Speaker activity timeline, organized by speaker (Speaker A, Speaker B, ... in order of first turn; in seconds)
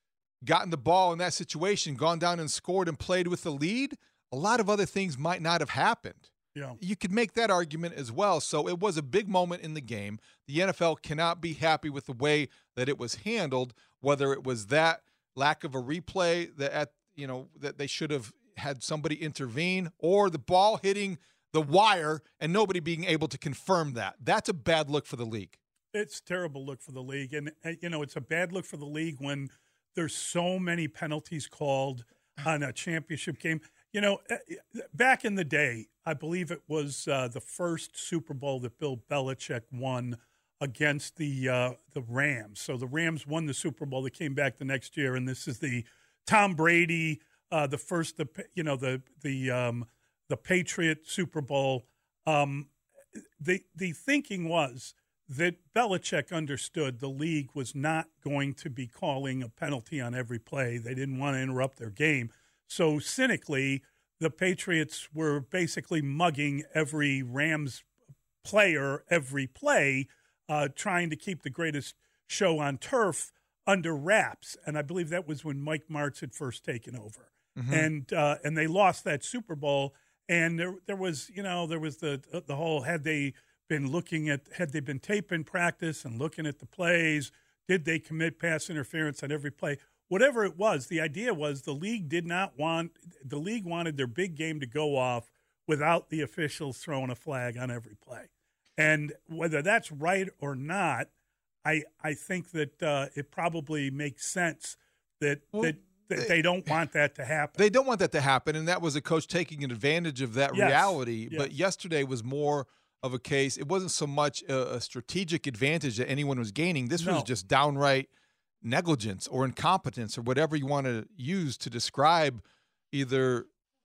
Speaker A: 0.4-25.6, 77.5-77.9, 105.5-106.3, 107.5-118.1, 118.6-123.5
Speaker B: 25.9-52.7, 53.4-67.8, 68.4-101.1, 101.6-107.6, 110.5-111.5, 117.0-117.3